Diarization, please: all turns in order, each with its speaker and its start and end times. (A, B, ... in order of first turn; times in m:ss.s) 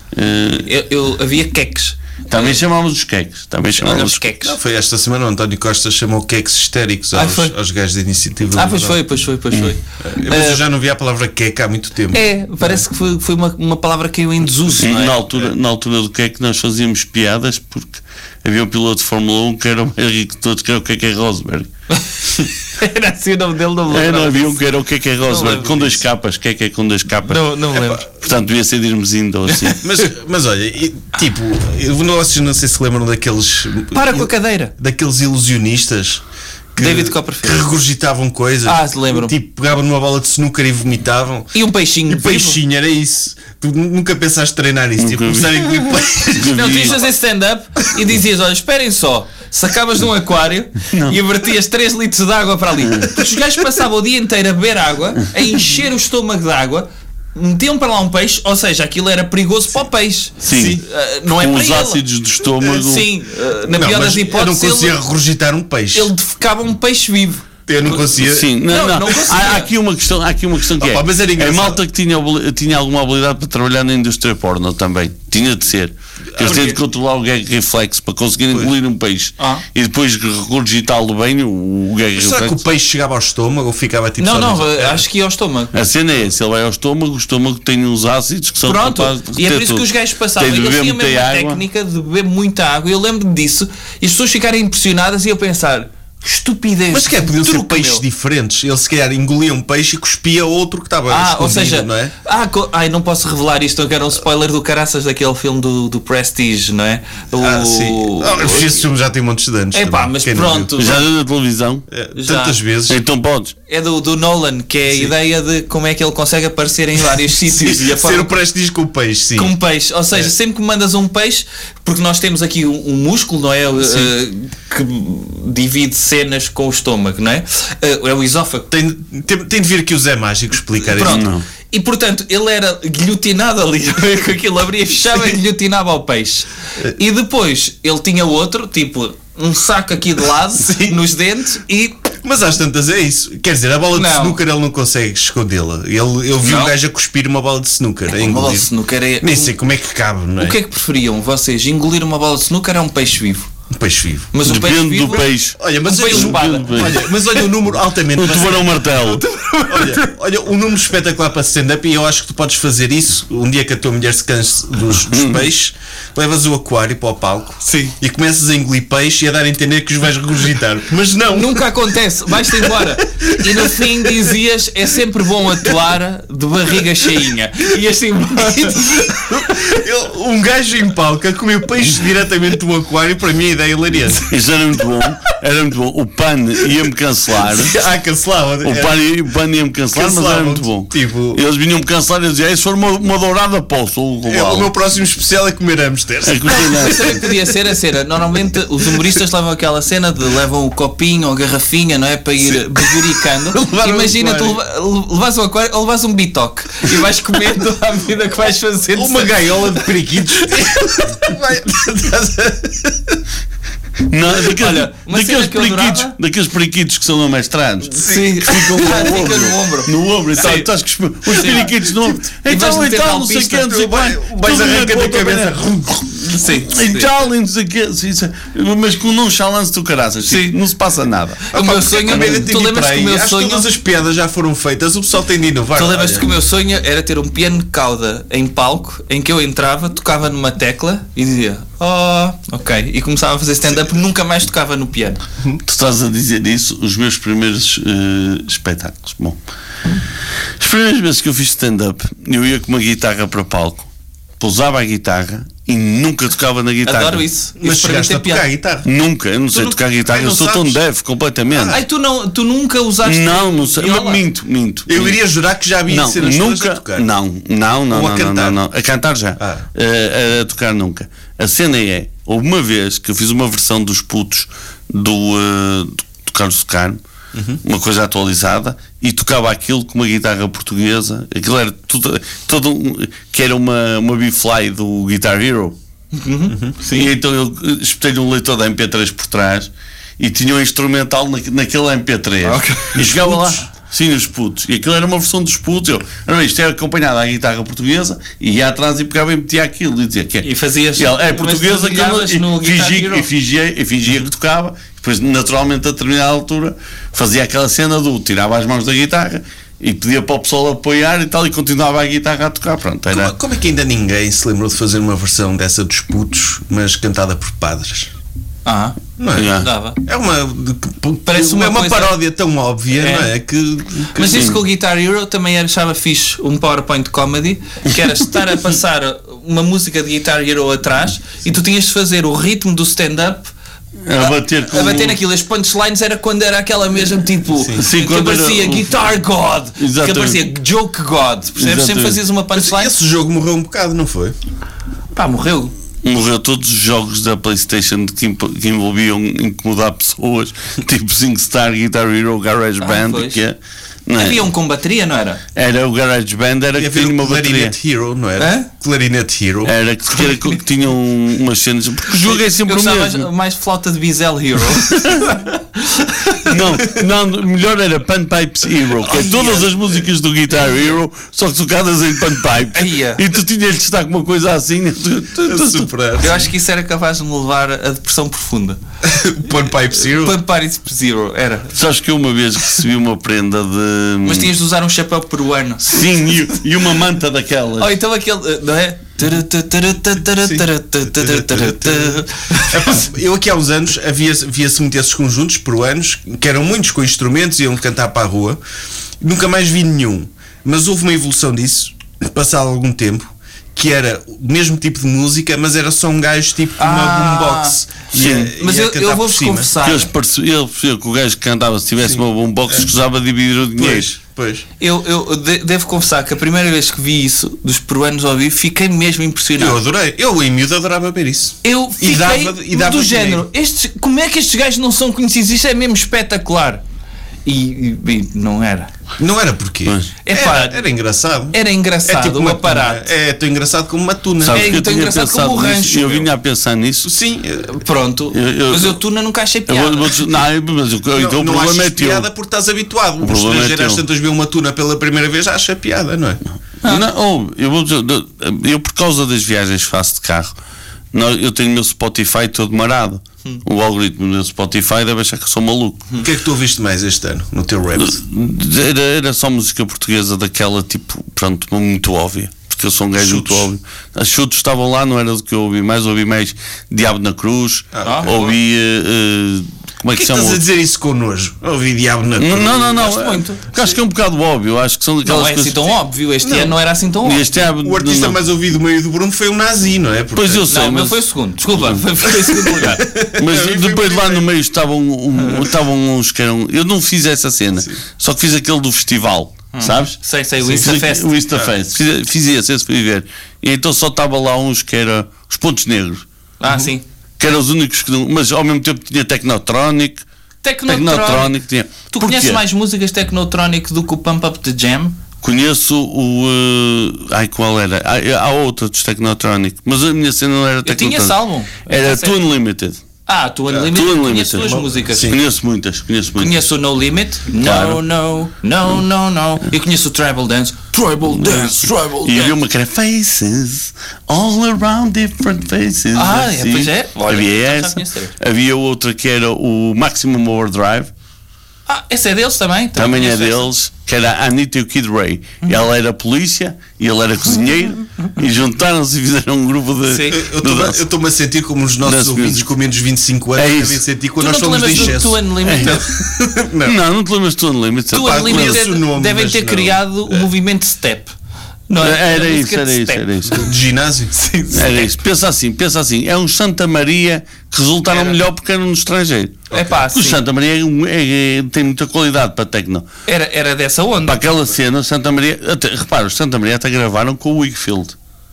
0:00.1-0:00.7 A
0:00.6-0:02.6 B
0:02.3-0:04.3 A
0:03.8-0:04.6 B
0:04.4-0:09.0 C
0:07.1-0:07.5 B
0:08.5-0:10.6 B
0:10.0-0:12.8 C
0:12.1-0:15.2 B
0:14.8-0:21.7 A
0:21.9-0:24.6 B
0:23.9-0:29.8 A
0:25.2-0:26.0 B
0:27.2-0:28.1 B
0:29.8-0:36.2 C
0:33.9-0:34.7 B
0:36.7-0:41.5 C
0:36.8-0:37.6 B
0:38.6-0:39.3 B
0:41.5-0:42.6 B
0:42.1-0:47.0 C
0:45.0-0:45.7 A
0:46.4-0:47.0 A
0:46.5-1:02.0 B
0:50.9-0:51.2 A
1:00.4-1:03.1 A
1:00.4-1:00.8 C
1:02.6-1:05.0 B
1:03.7-1:06.1 C
1:05.9-1:08.0 B
1:07.7-1:08.6 C
1:08.1-1:22.6 A
1:08.7-1:09.7 B
1:10.8-1:11.8 C
1:16.4-1:16.6 C
1:16.4-1:16.8 B
1:19.4-1:19.6 B
1:22.2-1:25.0 C
1:24.2-1:25.7 B
1:25.7-1:31.6 A
1:28.6-1:38.0 B
1:36.9-1:42.1 C
1:41.1-1:48.8 B
1:47.4-1:50.7 C
1:49.7-1:51.0 B
1:50.8-1:51.8 A
1:51.9-1:53.0 C
1:52.2-1:52.6 B
1:52.9-1:53.5 A
1:53.7-1:58.3 B
1:57.5-1:59.5 C
1:59.4-2:08.7 B
2:08.7-2:11.2 C
2:10.9-2:22.0 B
2:11.0-2:11.4 A
2:20.6-2:21.0 C
2:22.2-2:28.7 C
2:23.9-2:24.4 B
2:26.4-2:26.7 B
2:28.1-2:29.5 B
2:29.2-2:30.6 C
2:30.4-2:33.5 B
2:33.7-2:34.3 C
2:34.3-2:35.3 B
2:34.4-2:37.1 A
2:35.6-2:38.8 C
2:35.8-2:37.4 B
2:38.1-2:39.2 A
2:38.9-2:40.1 B
2:39.7-2:51.8 C
2:45.1-2:45.4 A
2:47.6-2:47.9 B
2:51.3-2:59.8 B
2:52.4-2:54.3 C
2:59.3-3:04.3 C
3:04.3-3:07.7 A
3:07.4-3:09.0 C
3:08.6-3:14.7 A
3:09.9-3:11.4 C
3:14.2-3:17.4 C
3:16.2-3:17.2 A
3:16.5-3:31.2 B
3:22.4-3:24.6 C
3:28.9-3:33.2 C
3:34.1-3:51.5 A
3:34.4-3:36.1 B
3:37.8-3:40.7 B
3:38.0-3:39.0 C
3:41.3-3:41.7 B
3:42.4-3:43.7 B
3:43.6-3:46.0 C
3:46.2-3:47.1 B
3:50.2-3:50.6 B
3:51.5-3:53.7 B
3:51.5-3:56.3 C
3:52.1-3:52.4 A
3:55.8-4:05.2 B
4:05.6-4:09.4 A
4:10.6-4:13.9 A
4:14.4-4:17.2 A
4:16.8-4:18.5 B
4:17.6-4:18.9 C
4:18.8-4:21.8 A
4:19.5-4:20.8 C
4:21.5-4:21.8 C
4:21.6-4:24.2 B
4:23.0-4:25.2 A
4:24.9-4:27.1 C
4:25.9-4:37.0 A
4:27.9-4:28.6 C
4:29.4-4:29.6 C
4:37.3-4:37.6 C
4:37.6-4:45.7 A
4:46.1-4:47.1 B
4:46.5-4:46.7 C
4:46.9-5:13.3 A
4:52.4-4:53.2 B
4:53.0-4:53.6 C
5:00.4-5:03.3 B
5:13.1-5:18.1 C
5:18.6-5:19.0 B
5:19.2-5:24.5 C
5:19.3-5:19.7 A
5:19.6-5:20.0 B
5:21.2-5:22.1 B
5:22.9-5:23.3 B
5:24.1-5:33.5 B
5:24.3-5:24.6 A
5:34.0-5:35.2 A
5:34.2-5:42.9 B
5:37.6-5:37.8 C
5:37.8-5:39.0 A
5:39.8-5:40.4 A
5:41.6-5:42.2 A
5:42.5-5:44.4 C
5:45.1-5:45.7 B
5:46.0-5:53.6 A
5:52.8-5:53.4 B
5:54.1-5:54.5 A
5:54.2-5:55.4 B
5:55.5-5:57.7 A
5:56.8-5:59.7 C
5:58.4-5:58.7 B
5:59.6-6:03.3 A
6:00.2-6:00.6 B
6:02.1-6:06.6 B
6:04.8-6:05.4 A
6:06.4-6:15.9 A
6:09.0-6:10.0 B
6:12.7-6:13.2 B
6:15.4-6:16.5 C
6:16.2-6:18.8 B
6:19.0-6:20.4 C
6:20.0-6:21.8 B
6:21.7-6:24.5 A
6:24.2-6:26.0 B
6:25.8-6:27.9 A
6:27.8-6:33.0 B
6:30.4-6:38.6 C
6:39.2-6:49.7 C
6:46.8-6:47.8 B
6:48.1-6:48.5 A
6:48.6-6:50.1 B
6:49.8-6:54.1 A
6:52.0-6:52.8 C
6:53.8-6:54.6 C
6:54.8-6:59.8 B
6:59.6-7:03.4 C
7:01.6-7:06.8 B
7:07.4-7:08.9 B
7:09.2-7:14.7 C
7:10.2-7:10.8 B
7:11.5-7:13.1 B
7:14.4-7:17.1 A
7:14.5-7:16.3 B
7:17.0-7:17.7 C
7:17.6-7:20.3 B
7:18.3-7:19.0 A
7:19.7-7:22.3 A
7:21.1-7:26.4 C
7:23.2-7:24.0 A
7:26.8-7:30.5 A
7:31.1-7:36.0 A
7:36.2-7:38.2 C
7:38.0-7:50.6 A
7:43.2-7:43.7 C
7:47.9-7:48.5 C
7:48.0-7:48.5 B
7:50.1-7:53.1 C
7:52.4-7:55.9 A
7:52.8-7:53.6 B
7:55.2-7:57.5 B
7:56.4-7:56.7 C
7:57.2-7:58.4 A
7:57.8-8:00.7 C
8:00.4-8:01.2 A
8:00.7-8:03.0 B
8:01.7-8:02.0 A
8:02.4-8:04.5 C
8:02.7-8:16.2 A
8:05.4-8:05.6 B
8:09.7-8:11.3 B
8:16.6-8:17.0 B
8:17.4-8:20.2 A
8:20.6-8:21.6 B
8:20.9-8:22.6 A
8:22.1-8:25.2 B
8:25.4-8:33.0 A
8:30.8-8:32.4 B
8:33.2-8:35.3 B
8:33.9-8:36.7 A
8:34.6-8:35.4 C
8:36.4-8:42.5 B
8:37.6-8:38.0 A
8:41.3-8:51.1 A
8:46.1-8:48.3 B
8:51.9-8:53.7 B
8:53.0-9:01.0 A
9:00.0-9:00.4 B
9:00.3-9:07.0 C
9:02.0-9:02.7 A
9:03.6-9:04.0 A
9:04.4-9:06.1 B
9:05.6-9:06.0 A
9:06.8-9:08.8 A
9:08.1-9:11.3 B
9:08.1-9:10.4 C
9:11.9-9:13.2 B
9:12.0-9:13.7 A
9:13.5-9:14.3 C
9:14.3-9:15.1 B
9:14.7-9:23.1 A
9:18.1-9:18.4 B
9:19.7-9:20.0 C
9:19.7-9:20.4 B
9:23.2-9:24.4 B
9:24.2-9:28.1 A